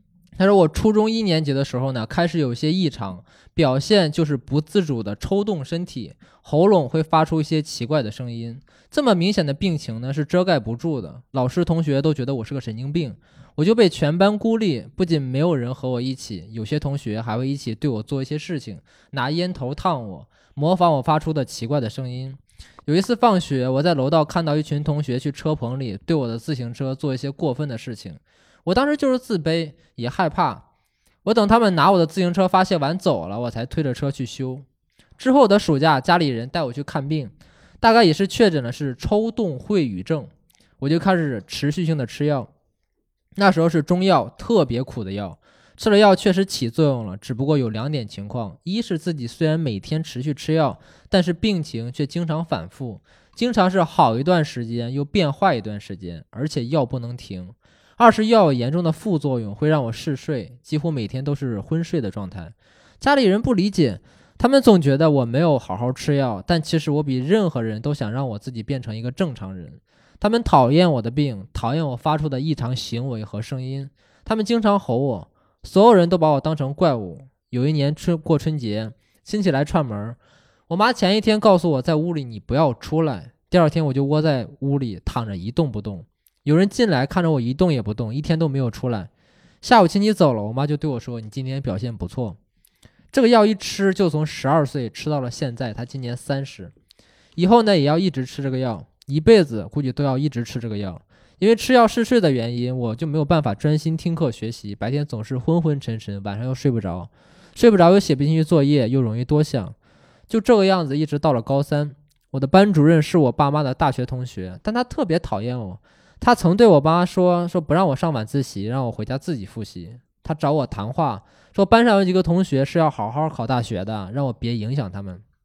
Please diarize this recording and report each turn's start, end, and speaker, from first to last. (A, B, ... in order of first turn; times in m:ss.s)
0:00.4-0:30.6 A
0:31.2-0:34.6 A
0:35.2-0:40.3 A
0:40.8-0:42.5 A
0:43.4-1:20.2 A
1:20.7-1:29.1 A
1:29.6-1:32.4 A
1:33.1-1:36.7 A
1:37.4-1:49.7 A
1:50.3-2:05.2 A